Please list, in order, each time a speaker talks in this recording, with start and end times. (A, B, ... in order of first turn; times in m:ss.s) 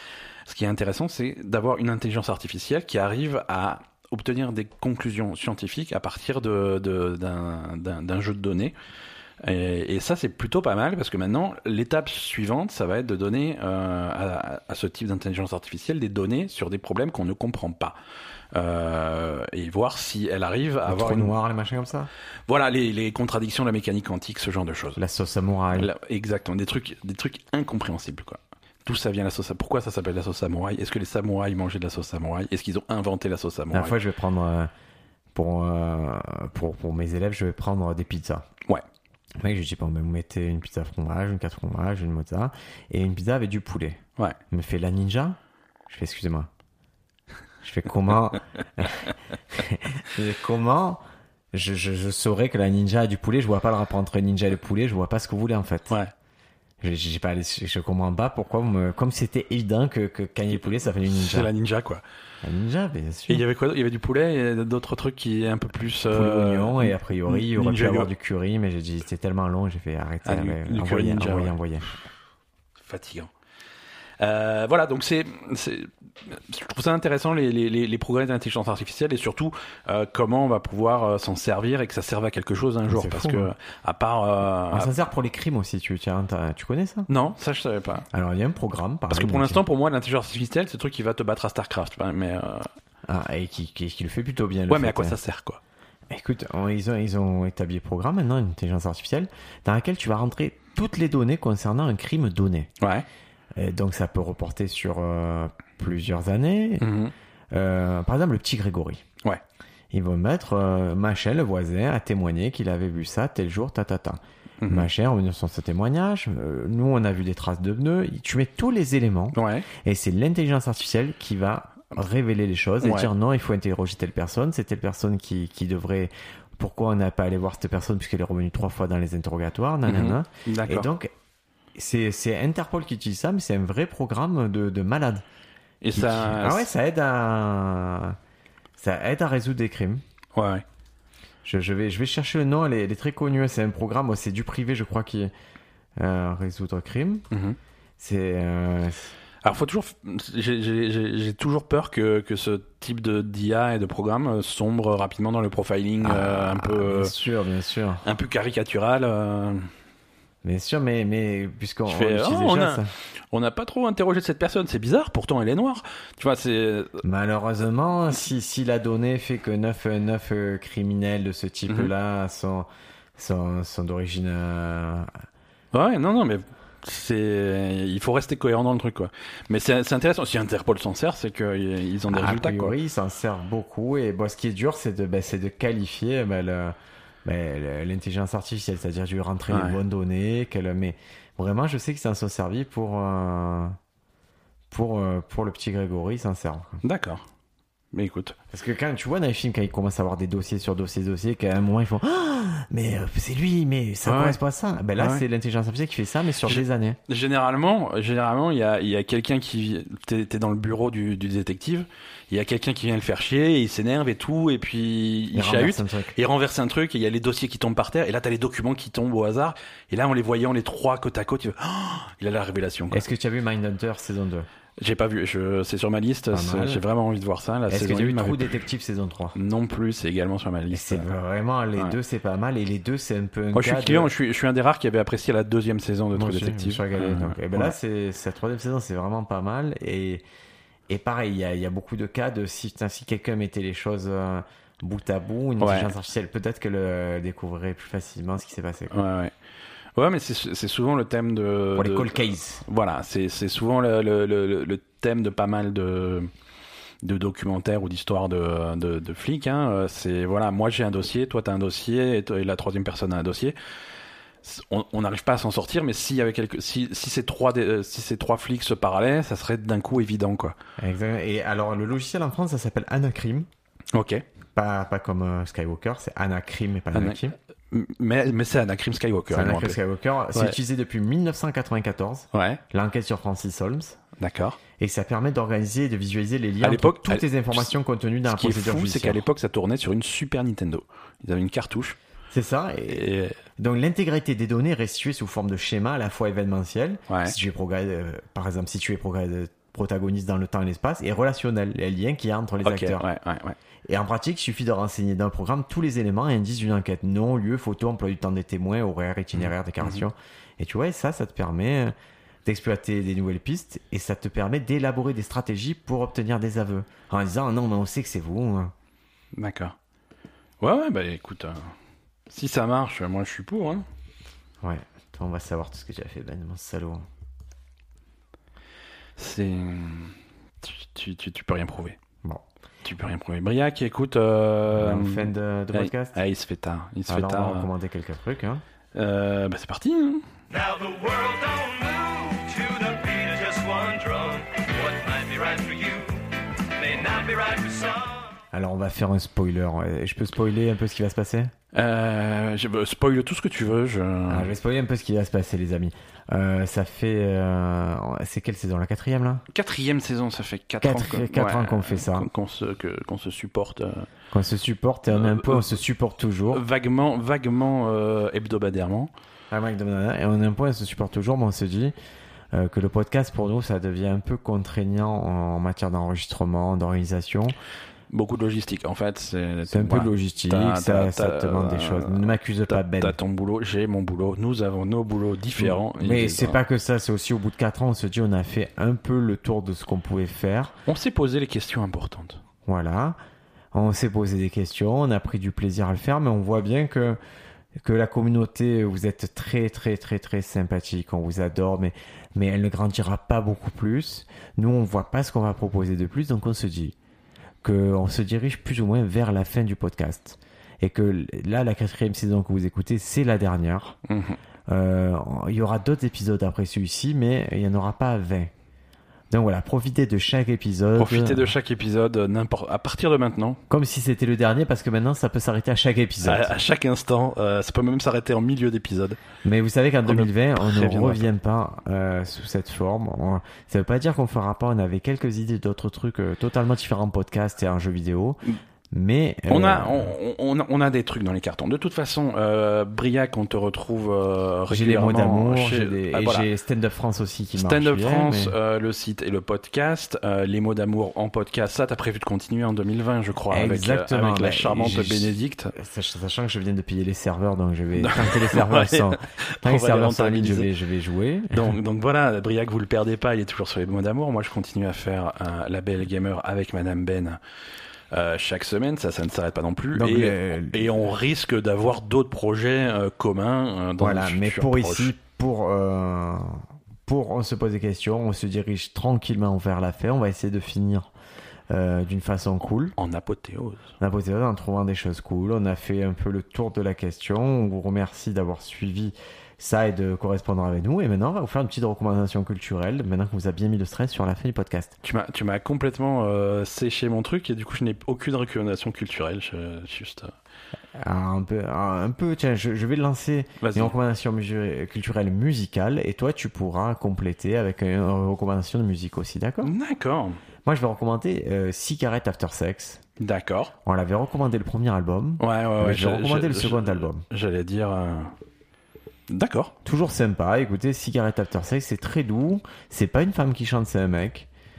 0:00.5-0:08.8 A
0:09.4-0:18.0 A
0:18.5-0:21.3 A
0:20.9-0:22.1 B
0:22.5-0:25.0 A
0:25.0-0:25.9 B
0:25.7-0:34.0 A
0:33.7-0:34.7 B
0:35.3-0:38.5 B
0:39.4-0:45.4 B
0:45.9-0:46.5 B
0:47.6-0:51.0 B
0:51.5-0:56.0 B
0:56.8-1:01.5 B
1:00.5-1:02.0 A
1:02.4-1:03.4 B
1:03.3-1:08.1 A
1:06.1-1:11.9 B
1:10.2-1:11.6 A
1:12.8-1:13.3 A
1:14.2-1:25.0 A
1:22.9-1:23.5 B
1:24.7-1:27.1 B
1:27.1-1:28.1 A
1:28.1-1:29.6 B
1:29.1-1:32.7 A
1:33.1-1:35.2 B
1:34.7-1:35.6 A
1:36.1-1:42.7 B
1:42.8-1:43.0 A
1:43.6-1:46.9 B
1:46.8-1:47.1 A
1:47.5-1:49.0 B
1:49.9-2:11.1 B
1:54.6-1:54.9 A
1:59.3-1:59.7 A
2:02.8-2:03.1 A
2:09.9-2:10.9 A
2:11.8-2:15.2 B
2:15.8-2:16.7 A
2:16.0-2:18.2 B
2:18.8-2:20.0 B
2:20.4-2:20.6 A
2:21.4-2:25.3 B
2:26.0-2:27.2 B
2:27.3-2:27.6 A
2:28.0-2:29.1 B
2:29.4-2:37.1 A
2:36.0-2:38.1 B
2:38.0-2:39.7 A
2:40.4-2:42.9 B
2:41.9-2:47.0 A
2:47.0-2:55.1 B
2:51.7-2:51.9 A
2:55.7-3:02.8 A
3:02.1-3:13.8 B
3:09.5-3:09.8 A
3:14.7-3:16.8 B
3:16.8-3:17.3 A
3:17.9-3:18.4 A
3:18.5-3:27.0 B
3:24.0-3:24.4 A
3:25.0-3:25.2 A
3:26.4-3:43.0 A
3:35.3-3:36.2 B
3:42.9-3:44.5 B
3:44.8-3:48.6 A
3:46.3-3:46.8 B
3:47.7-3:49.4 B
3:49.4-3:51.1 A
3:50.7-3:54.1 B
3:53.5-3:57.7 A
3:56.2-4:00.2 B
4:00.9-4:08.9 B
4:05.6-4:05.9 A
4:08.9-4:09.3 A
4:10.0-4:16.3 A
4:11.8-4:12.6 B
4:17.0-4:23.6 A
4:24.4-4:30.6 A
4:30.8-4:33.5 B
4:33.9-4:34.2 A
4:34.6-4:37.4 B
4:36.9-4:39.8 A
4:39.3-4:44.0 B
4:42.3-4:42.6 A
4:44.2-4:44.6 A
4:44.8-4:49.2 B
4:46.6-4:47.7 A
4:48.3-4:52.0 A
4:52.3-5:03.0 B
4:52.9-4:53.4 A
4:57.1-4:57.4 A
5:02.6-5:03.6 A
5:03.9-5:11.9 B
5:09.3-5:10.0 A
5:12.4-5:18.7 B
5:19.4-5:19.8 A
5:20.6-5:21.8 A
5:22.3-5:23.8 A
5:24.6-5:27.1 B
5:29.2-5:32.0 A
5:32.8-5:37.7 A
5:34.7-5:36.2 B
5:37.1-5:38.6 B
5:39.0-5:40.2 A
5:40.5-5:48.4 C
5:48.5-5:51.5 B
5:51.7-5:54.5 A
5:54.3-5:59.4 B
5:59.5-6:04.1 A
6:00.8-6:02.3 B
6:04.3-6:06.6 B
6:05.1-6:05.8 A
6:06.5-6:09.1 A
6:09.5-6:11.9 B
6:12.5-6:17.6 B
6:18.1-6:26.6 A
6:19.7-6:23.2 B
6:25.6-6:30.8 B
6:30.9-6:32.4 A
6:32.7-6:33.2 B
6:33.7-6:37.2 B
6:37.8-6:47.0 B
6:47.6-6:54.0 B
6:54.1-6:54.4 A
6:54.7-6:58.5 B
6:59.3-7:01.5 B
7:01.0-7:03.6 A
7:03.7-7:06.5 B
7:06.2-7:09.2 A
7:09.4-7:18.4 B
7:10.1-7:11.3 A
7:18.9-7:20.1 B
7:19.5-7:26.5 A
7:24.7-7:28.6 B
7:27.6-7:35.7 A
7:33.5-7:41.8 B
7:38.0-7:40.7 A
7:41.5-7:47.4 A
7:48.1-7:55.1 A
7:50.0-7:51.0 B
7:54.0-8:01.1 B
8:01.7-8:03.0 B
8:03.0-8:03.9 A
8:04.0-8:15.0 B
8:15.0-8:20.4 A
8:21.0-8:29.7 B
8:23.6-8:23.9 A
8:29.6-8:30.4 A
8:30.6-8:33.0 B
8:33.2-8:33.7 A
8:33.8-8:37.2 B
8:35.4-8:38.3 A
8:39.3-8:39.8 A
8:39.8-8:44.5 B